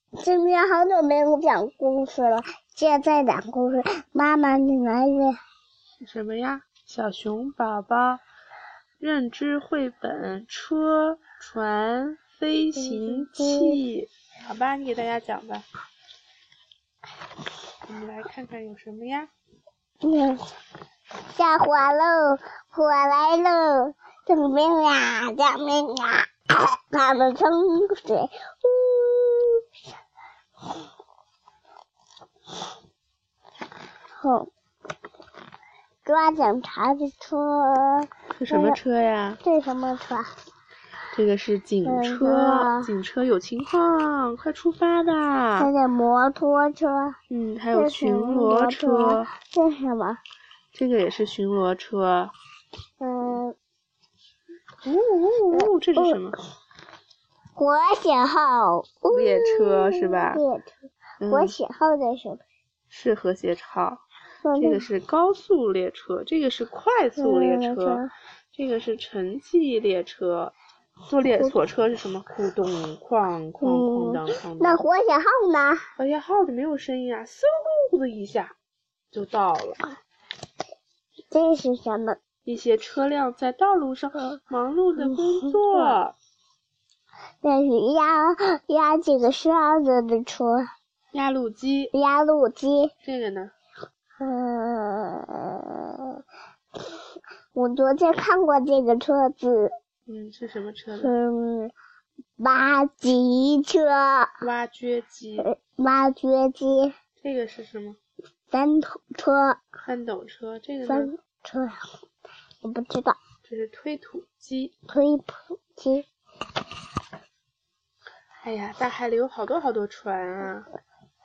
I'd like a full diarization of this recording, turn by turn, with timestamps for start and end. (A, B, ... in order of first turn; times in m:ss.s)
0:00.2-0:05.4 A
0:06.0-0:08.2 B
0:09.0-0:15.6 B
0:12.8-0:13.8 A
0:17.8-0:19.3 B
0:20.0-0:20.5 A
0:21.2-0:29.6 A
0:34.2-0:34.5 A
0:36.0-0:38.8 A
0:38.4-0:39.4 B
0:39.4-0:40.3 A
0:41.1-0:45.7 B
0:41.8-0:42.9 A
0:45.6-0:47.2 A
0:47.3-0:49.3 B
0:47.7-0:50.2 A
0:50.7-0:52.3 B
0:53.0-0:53.5 A
0:54.8-0:56.4 B
0:55.5-0:56.2 A
0:57.6-1:02.4 A
0:59.1-1:00.4 B
1:01.2-1:01.5 B
1:02.9-1:04.0 B
1:04.4-1:04.8 A
1:04.6-1:08.0 B
1:07.2-1:08.1 A
1:08.5-1:10.5 B
1:11.0-1:14.8 B
1:13.6-1:15.9 A
1:16.0-1:18.5 B
1:19.1-1:19.8 B
1:21.3-1:22.2 A
1:22.4-1:26.2 B
1:25.1-1:25.9 A
1:27.4-1:30.7 A
1:31.1-1:31.9 B
1:31.9-1:32.9 A
1:33.0-1:33.5 B
1:34.2-1:36.2 A
1:37.5-1:39.7 A
1:40.1-1:41.2 B
1:41.0-1:41.7 A
1:42.4-1:44.4 A
1:44.4-1:45.5 B
1:45.4-1:46.9 A
1:47.2-1:48.0 B
1:48.5-1:49.6 A
1:49.8-1:51.1 B
1:50.8-1:51.8 A
1:52.6-1:53.2 A
1:53.4-1:54.7 B
1:54.9-1:56.1 A
1:58.4-2:00.7 B